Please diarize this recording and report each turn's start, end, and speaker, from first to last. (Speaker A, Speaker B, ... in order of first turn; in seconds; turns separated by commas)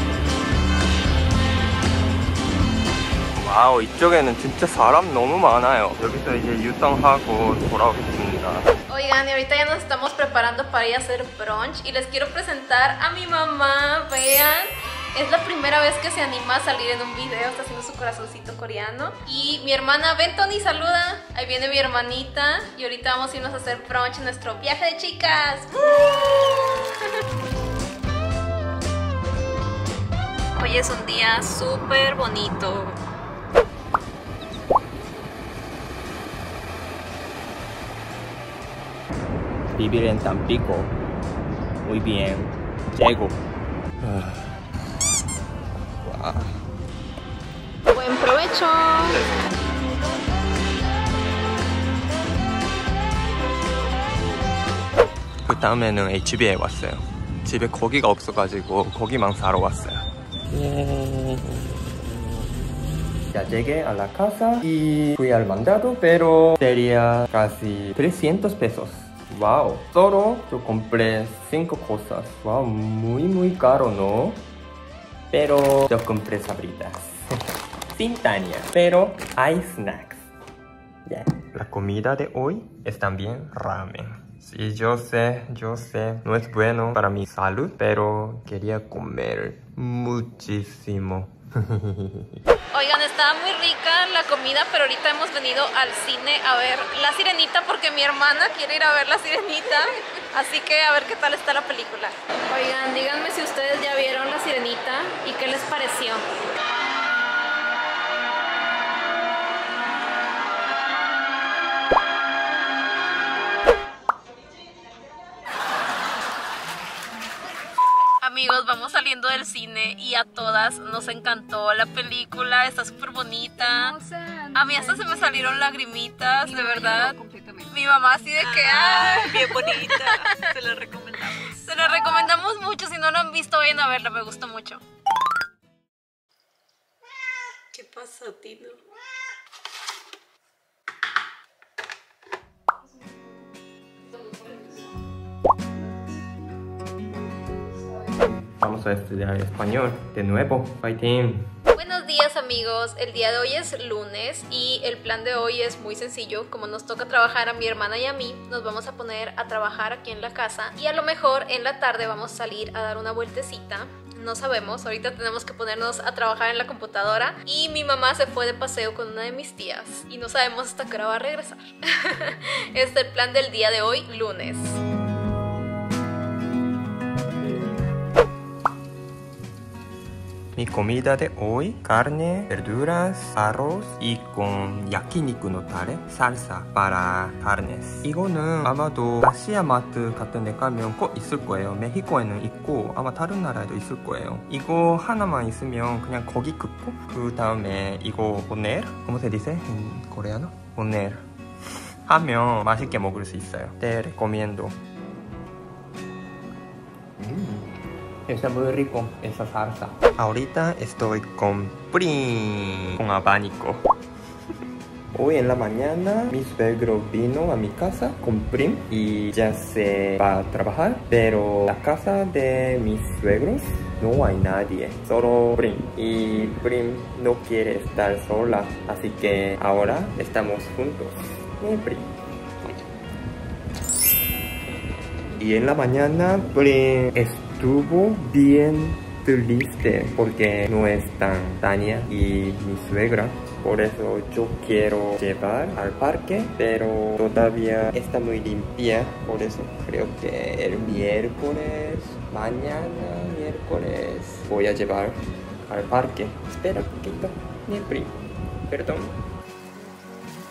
Speaker A: 3.3-8.7, Speaker B: 8.9-27.2, Speaker B: 30.6-33.0, Speaker A: 39.7-41.0, Speaker A: 41.8-43.4, Speaker A: 44.0-44.6, Speaker A: 46.0-46.6, Speaker B: 47.9-49.2, Speaker A: 49.1-49.4, Speaker A: 55.5-62.5, Speaker A: 63.3-74.4, Speaker A: 75.3-77.4, Speaker A: 77.9-80.3, Speaker A: 81.1-92.4, Speaker B: 92.7-106.2, Speaker B: 118.2-124.0, Speaker C: 123.6-125.6, Speaker B: 124.5-127.2, Speaker C: 126.4-127.8, Speaker B: 127.7-130.6, Speaker C: 128.4-132.0, Speaker B: 131.3-134.8, Speaker B: 137.7-138.8, Speaker B: 144.3-144.6, Speaker A: 148.2-151.5, Speaker B: 151.7-174.8, Speaker A: 180.6-201.2, Speaker A: 202.1-204.8, Speaker A: 207.2-207.7, Speaker A: 208.3-213.9, Speaker A: 215.1-232.1, Speaker A: 235.4-258.2, Speaker A: 258.7-259.2